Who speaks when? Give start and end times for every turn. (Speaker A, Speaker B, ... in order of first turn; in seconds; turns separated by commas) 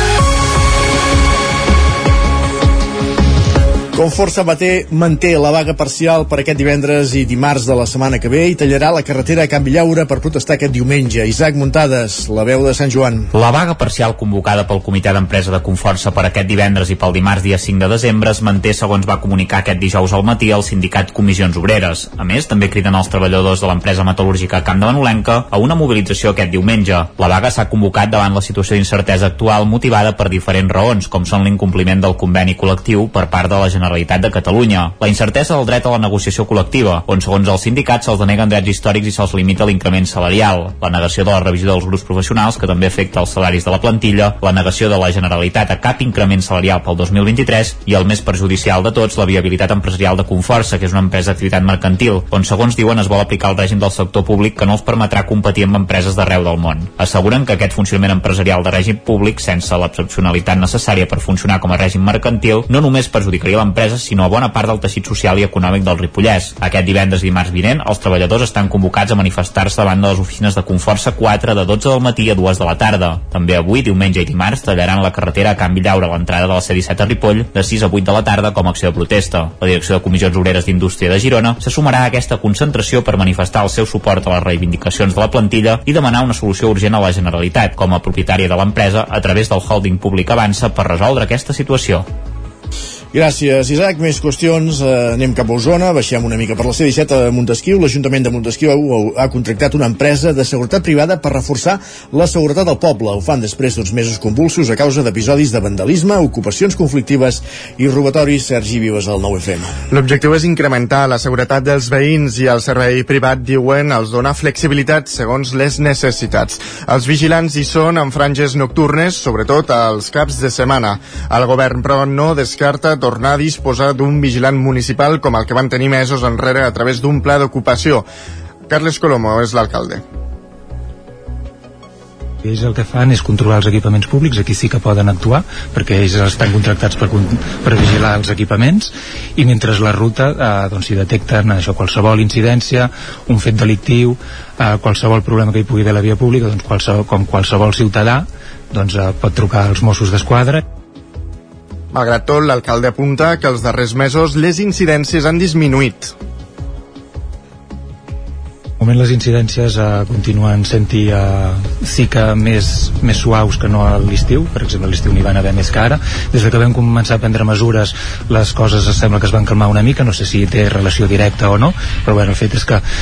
Speaker A: 3.9-13.3, Speaker B: 13.3-92.1, Speaker A: 93.1-109.8, Speaker C: 109.9-128.1, Speaker C: 128.7-130.0, Speaker D: 132.4-150.6, Speaker C: 151.9-156.1, Speaker D: 158.8-172.8